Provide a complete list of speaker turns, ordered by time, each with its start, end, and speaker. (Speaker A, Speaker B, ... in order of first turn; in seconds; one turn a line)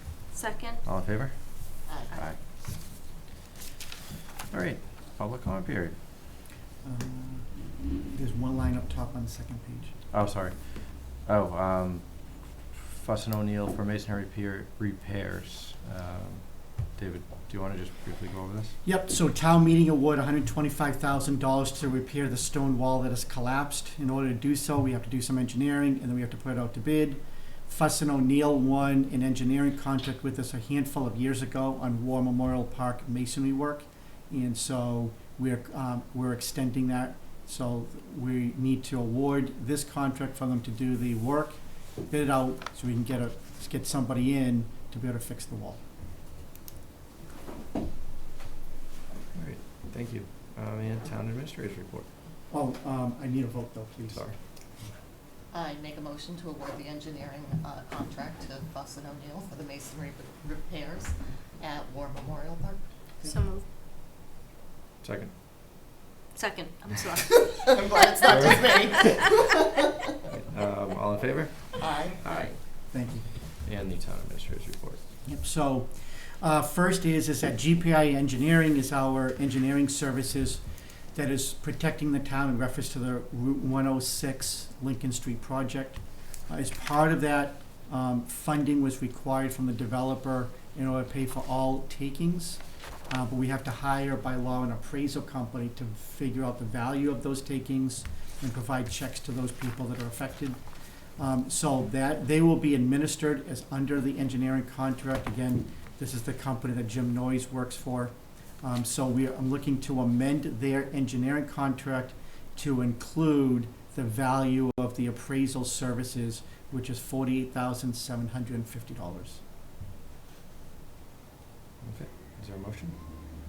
Speaker A: 0.3-0.8
Speaker B: 0.8-2.4
Speaker C: 1.9-2.1
Speaker B: 4.5-6.0
Speaker D: 6.8-7.5
Speaker D: 8.1-9.9
Speaker B: 10.1-12.1
Speaker B: 12.7-18.8
Speaker D: 18.8-45.8
Speaker B: 49.3-52.1
Speaker D: 52.5-54.2
Speaker B: 54.1-54.4
Speaker C: 55.5-63.3
Speaker A: 63.2-63.6
Speaker B: 65.0-65.3
Speaker A: 66.3-69.1
Speaker C: 67.4-69.9
Speaker B: 70.3-72.6
Speaker C: 71.8-72.6
Speaker D: 72.9-73.3
Speaker B: 73.6-75.0
Speaker D: 75.3-80.6
Speaker D: 81.1-100.6
Speaker D: 101.2-119.4
Speaker B: 121.8-123.0